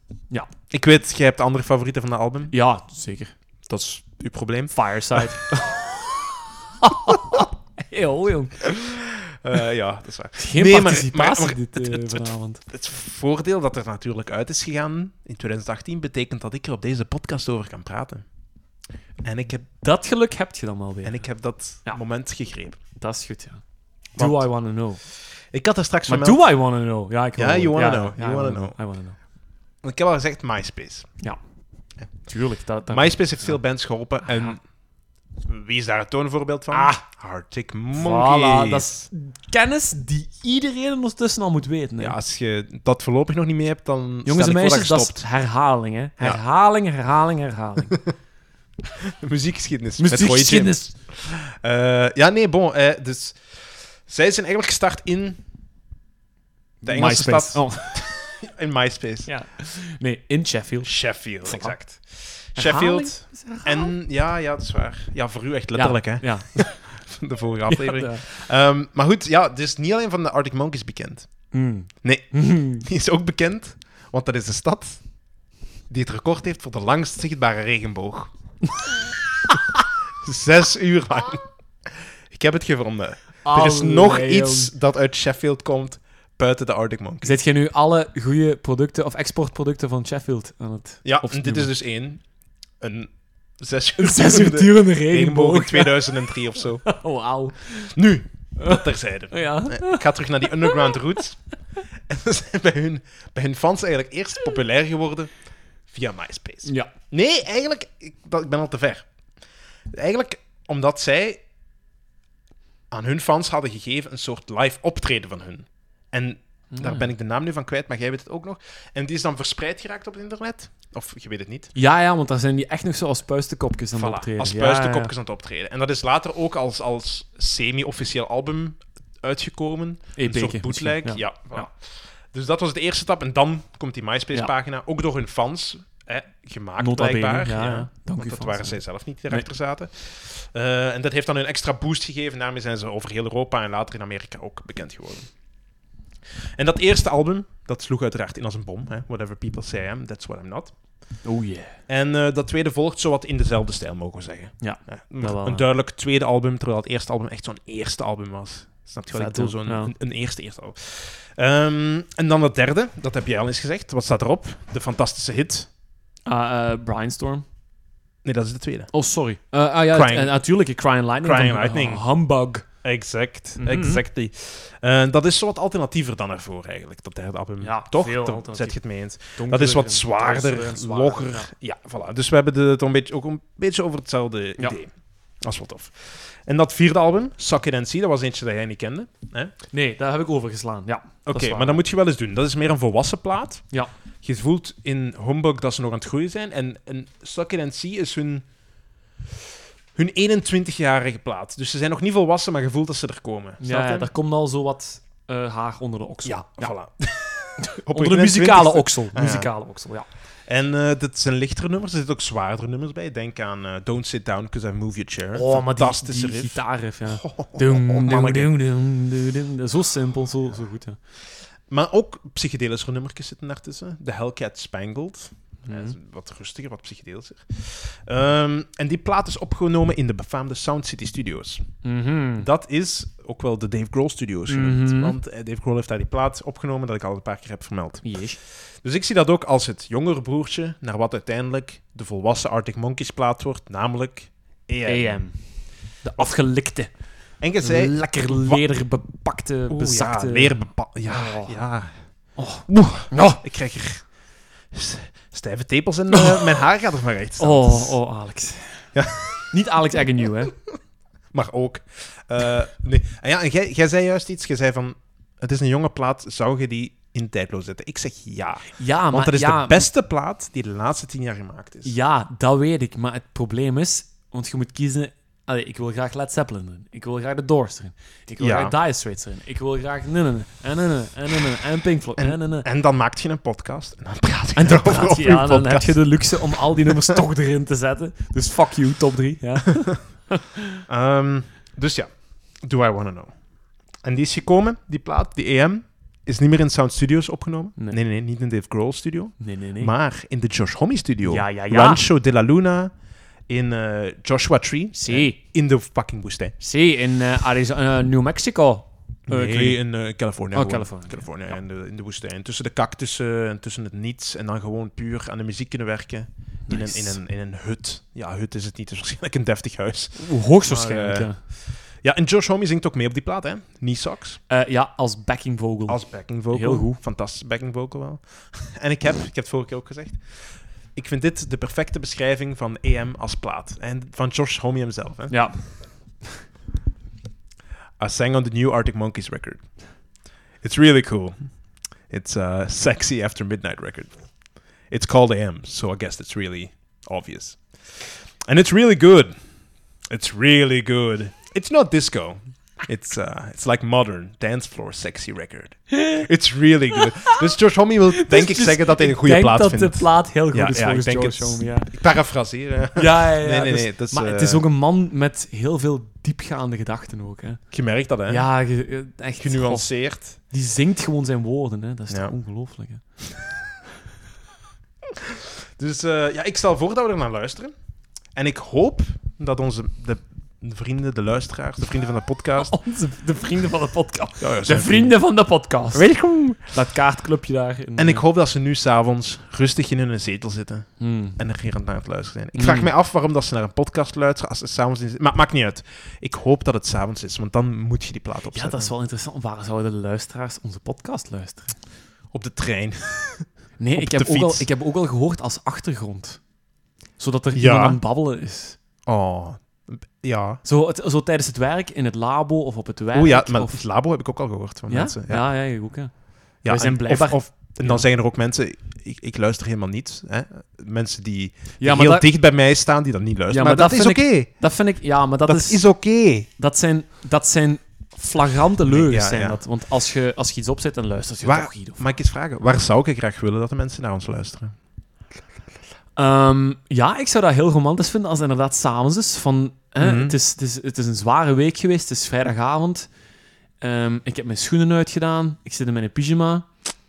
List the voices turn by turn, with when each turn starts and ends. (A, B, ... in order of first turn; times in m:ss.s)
0:00.7-0:02.5 A
0:02.5-0:03.3 B
0:03.7-0:05.3 A
0:04.7-0:08.8 B
0:08.7-0:18.2 A
0:10.4-0:12.6 B
0:19.2-0:19.7 A
0:19.8-0:21.2 B
0:21.0-0:22.8 A
0:22.9-0:23.6 B
0:24.2-0:24.5 A
0:24.2-0:25.0 B
0:25.5-0:26.5 A
0:26.1-0:29.2 B
0:27.4-0:28.8 A
0:29.8-0:31.1 A
0:32.3-0:33.6 B
0:32.9-0:34.6 A
0:34.2-0:34.5 B
0:35.4-0:39.1 A
0:36.7-0:37.0 B
0:37.9-0:42.2 B
0:42.0-0:45.2 A
0:44.2-0:47.9 B
0:49.1-0:55.4 A
0:50.0-0:50.9 B
0:56.8-0:58.1 B
0:56.8-0:59.3 A
0:59.2-1:01.9 B
1:00.8-1:11.3 A
1:02.6-1:03.9 B
1:05.8-1:07.1 B
1:07.7-1:08.2 B
1:11.5-1:12.8 B
1:12.0-1:15.1 A
1:15.9-1:18.3 A
1:20.1-1:27.4 A
1:23.4-1:24.7 B
1:27.2-1:31.7 B
1:31.0-1:32.2 A
1:32.8-1:36.8 A
1:34.0-1:38.0 B
1:37.9-1:41.4 A
1:38.6-1:41.0 B
1:42.1-1:45.3 A
1:45.9-1:49.1 A
1:46.6-1:46.9 B
1:49.9-1:51.4 A
1:52.9-2:01.7 A
1:56.7-1:57.1 B
2:01.8-2:05.1 B
2:03.9-2:25.3 A
2:10.2-2:11.7 B
2:16.8-2:19.5 B
2:26.6-2:30.7 A
2:31.2-2:31.8 B
2:31.9-2:45.7 A
2:34.6-2:35.6 B
2:39.1-2:39.9 B
2:46.2-2:47.4 B
2:48.2-2:48.9 A
2:48.9-2:52.6 B
2:49.9-2:50.4 A
2:51.2-2:52.1 A
2:52.8-3:09.5 A
2:53.6-2:54.0 B
2:57.6-2:58.8 B
2:59.4-3:01.5 B
3:09.7-3:11.8 B
3:11.2-3:13.7 A
3:14.2-3:18.4 A
3:19.9-3:24.1 A
3:23.6-3:26.8 B
3:26.2-3:29.5 A
3:27.6-3:30.1 B
3:30.4-3:38.5 A
3:35.3-3:41.0 B
3:41.7-3:51.6 A
3:45.7-3:45.9 B
3:51.8-3:52.5 B
3:52.4-4:05.3 A
3:54.5-3:55.2 B
3:58.0-3:58.4 B
4:04.8-4:06.9 B
4:06.2-4:06.4 A
4:07.4-4:08.6 A
4:07.6-4:11.6 B
4:09.7-4:12.0 A
4:12.4-4:13.4 B
4:13.3-4:14.2 A
4:14.7-4:18.0 A
4:16.1-4:16.6 B
4:17.4-4:18.9 B
4:18.9-4:19.6 A
4:19.5-4:20.6 B
4:21.3-4:31.9 A
4:28.8-4:29.8 B
4:31.8-4:42.7 B
4:38.4-4:38.7 A
4:42.2-4:47.2 A
4:44.6-4:50.8 B
4:50.9-5:02.9 A
4:59.4-4:59.9 B
5:01.2-5:02.0 B
5:03.5-5:06.6 A
5:04.9-5:05.4 B
5:06.6-5:09.8 B
5:09.3-5:24.4 A
5:10.5-5:11.5 B
5:16.7-5:17.2 B
5:20.2-5:21.4 B
5:24.5-5:27.0 B
5:25.9-5:35.4 A
5:35.3-5:36.3 B
5:38.0-5:39.7 A
5:40.6-5:44.1 A
5:44.8-5:49.3 A
5:50.1-6:04.7 A
5:55.9-5:56.2 B
5:56.9-5:57.3 B
5:58.1-6:02.1 B
6:02.9-6:07.6 B
6:07.7-6:08.5 A
6:08.3-6:13.0 B
6:09.4-6:10.4 A
6:15.8-6:17.7 A
6:18.3-6:22.7 A
6:22.6-6:26.1 B
6:24.4-6:25.1 A
6:25.9-6:26.8 A
6:26.6-6:28.2 B
6:28.0-6:38.9 A
6:31.0-6:31.4 B
6:32.6-6:32.9 B
6:38.5-6:41.8 B
6:42.3-6:44.7 A
6:43.8-6:46.4 B
6:47.2-6:48.8 B
6:47.6-6:48.0 A
6:49.1-6:50.6 A
6:50.6-6:53.9 B
6:53.1-6:55.4 A
6:54.9-6:58.1 B
6:56.6-7:04.6 A
7:01.8-7:02.3 B
7:03.5-7:05.8 B
7:05.4-7:06.5 A
7:06.5-7:12.1 B
7:08.8-7:09.6 A
7:11.4-7:14.7 A
7:16.2-7:23.1 B
7:20.0-7:20.4 A
7:23.8-7:26.7 B